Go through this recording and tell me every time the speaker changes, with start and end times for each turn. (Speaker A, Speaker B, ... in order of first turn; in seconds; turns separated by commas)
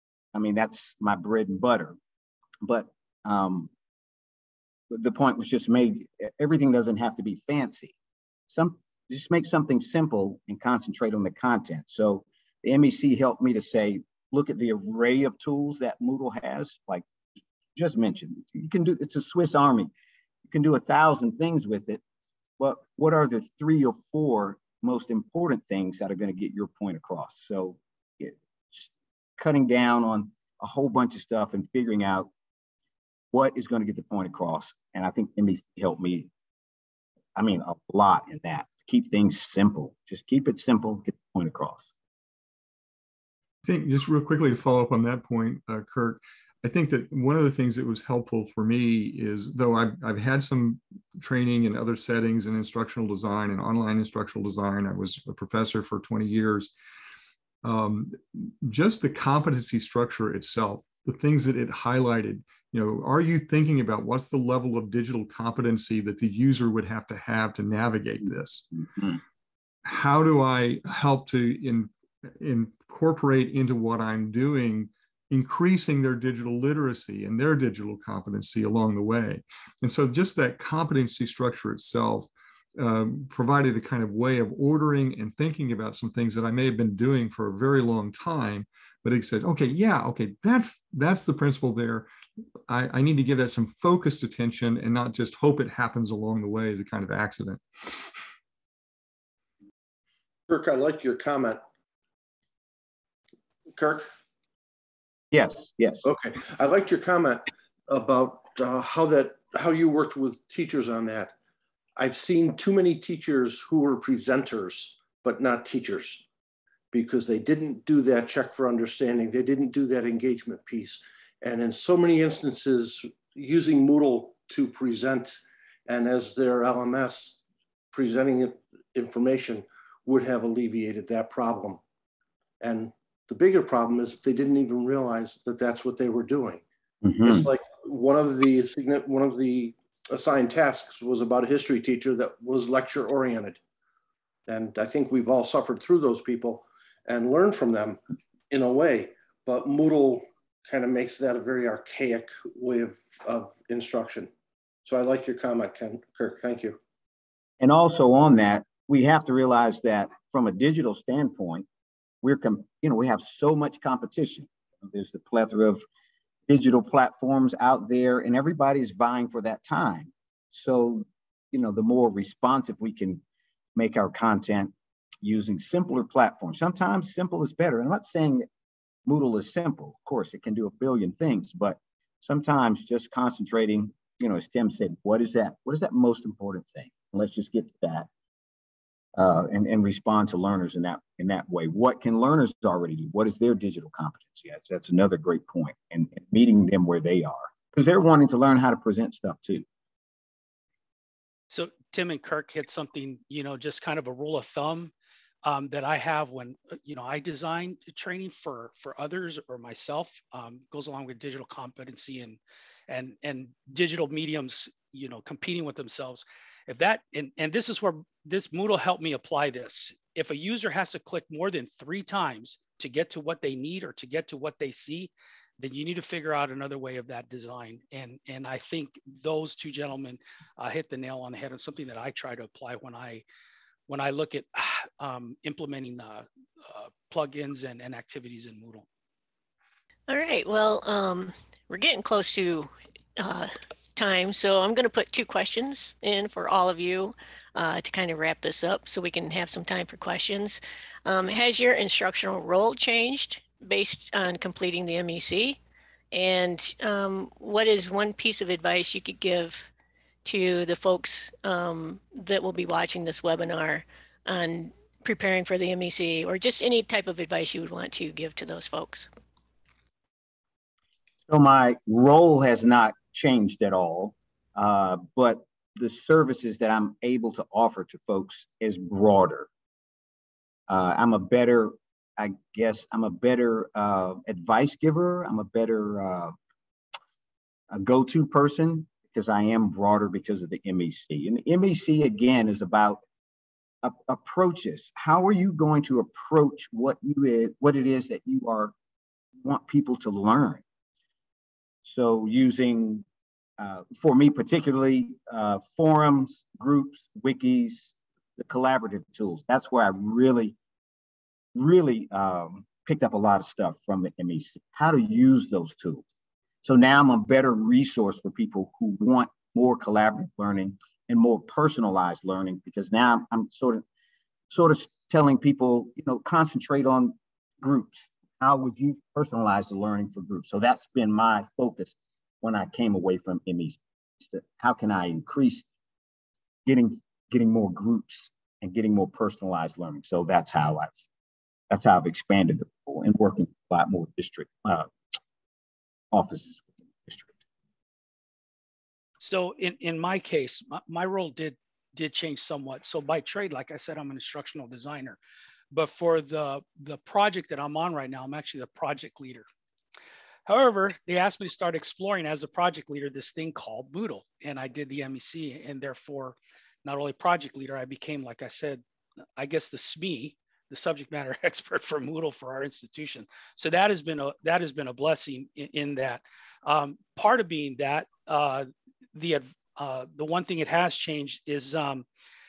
Speaker A: 0.3-2.0, Speaker A: 2.6-3.7, Speaker A: 4.9-7.9, Speaker A: 8.5-17.1, Speaker A: 17.8-19.9, Speaker A: 20.5-22.0, Speaker A: 22.6-32.3, Speaker A: 33.3-36.3, Speaker A: 37.3-41.9, Speaker B: 43.6-56.7, Speaker B: 57.6-68.6, Speaker A: 68.8-69.2, Speaker B: 69.8-92.1, Speaker B: 92.7-98.0, Speaker C: 100.5-101.6, Speaker C: 103.7-104.1, Speaker A: 105.3-106.1, Speaker C: 106.0-111.3, Speaker C: 112.0-116.2, Speaker C: 116.9-127.4, Speaker C: 127.9-131.8, Speaker C: 132.6-136.6, Speaker A: 137.0-137.5, Speaker C: 137.2-143.6, Speaker C: 144.5-148.0, Speaker C: 148.5-154.3, Speaker C: 154.8-156.8, Speaker A: 157.6-161.7, Speaker A: 162.2-165.8, Speaker A: 166.5-173.2, Speaker A: 173.7-174.7, Speaker A: 175.2-178.4, Speaker A: 179.1-188.1, Speaker A: 189.1-199.7, Speaker D: 201.5-204.9, Speaker D: 205.4-233.2, Speaker D: 233.9-238.8, Speaker E: 240.1-255.6, Speaker E: 256.1-259.7, Speaker E: 260.2-269.1, Speaker A: 271.3-279.5, Speaker A: 280.7-286.3, Speaker A: 287.7-293.0, Speaker A: 293.8-298.7, Speaker A: 299.4-300.6, Speaker A: 301.8-303.0, Speaker A: 303.6-310.6, Speaker A: 311.5-316.0, Speaker A: 316.6-323.8, Speaker A: 324.5-335.6, Speaker A: 336.6-341.0, Speaker A: 341.7-344.9, Speaker A: 346.1-347.3, Speaker D: 349.2-355.2, Speaker D: 355.7-359.4, Speaker D: 360.4-368.8, Speaker D: 369.4-382.0